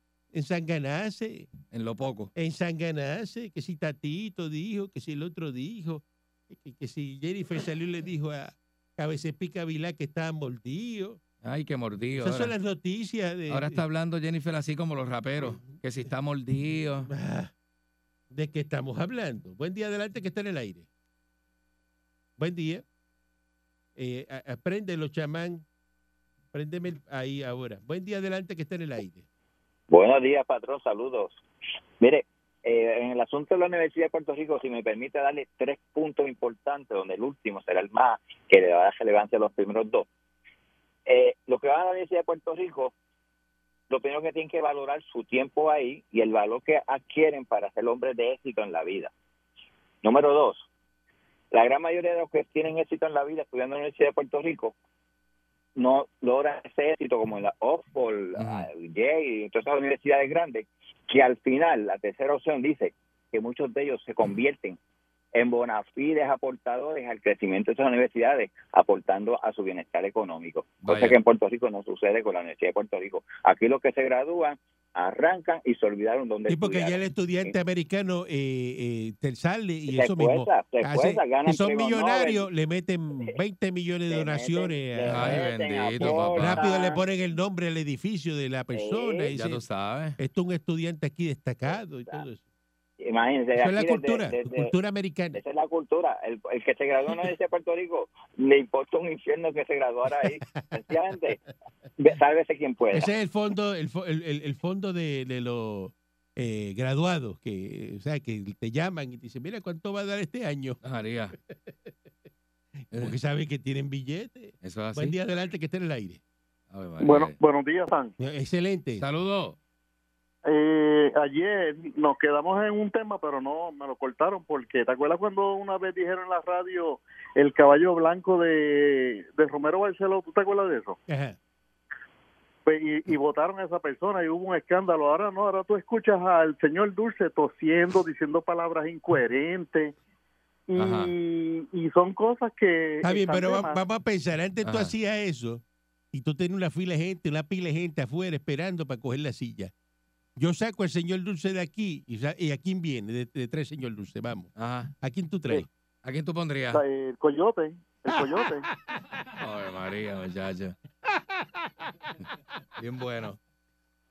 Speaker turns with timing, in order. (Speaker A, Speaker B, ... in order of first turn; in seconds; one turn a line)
Speaker A: 0.3-1.5
Speaker B: 1.7-2.3
Speaker A: 2.4-11.2
Speaker B: 11.4-12.5
Speaker A: 12.2-13.8
Speaker B: 13.5-17.1
Speaker A: 17.1-17.5
Speaker A: 18.3-20.9
Speaker A: 22.4-22.8
Speaker A: 24.0-25.6
Speaker A: 26.5-29.2
Speaker C: 29.9-31.4
Speaker C: 32.0-40.1
Speaker C: 41.1-42.9
Speaker C: 43.9-49.1
Speaker C: 50.0-50.7
Speaker C: 51.5-54.8
Speaker C: 55.8-64.8
Speaker B: 58.4-58.7
Speaker C: 65.3-77.5
Speaker B: 70.8-71.2
Speaker A: 76.5-85.4
Speaker C: 79.9-82.5
Speaker C: 84.1-87.0
Speaker B: 85.1-86.7
Speaker A: 86.0-89.6
Speaker C: 88.7-89.3
Speaker B: 89.3-90.2
Speaker A: 90.2-92.4
Speaker C: 93.0-94.7
Speaker A: 93.6-95.4
Speaker C: 95.3-101.4
Speaker A: 100.2-100.8
Speaker C: 102.0-103.1
Speaker A: 102.9-110.8
Speaker B: 110.8-111.3
Speaker A: 111.4-111.9
Speaker A: 112.9-116.2
Speaker B: 114.6-115.2
Speaker B: 116.7-117.4
Speaker D: 117.0-118.1
Speaker A: 118.2-119.0
Speaker B: 119.0-119.6
Speaker D: 120.5-131.0
Speaker A: 131.1-131.4
Speaker D: 132.7-139.9
Speaker D: 140.7-143.8
Speaker B: 140.8-141.1
Speaker A: 143.0-149.7
Speaker B: 144.6-144.9
Speaker A: 150.4-155.7
Speaker B: 154.6-154.9
Speaker B: 156.0-156.8
Speaker D: 156.7-158.7
Speaker A: 158.1-159.0
Speaker B: 159.4-160.8
Speaker A: 161.1-161.8
Speaker B: 162.8-163.4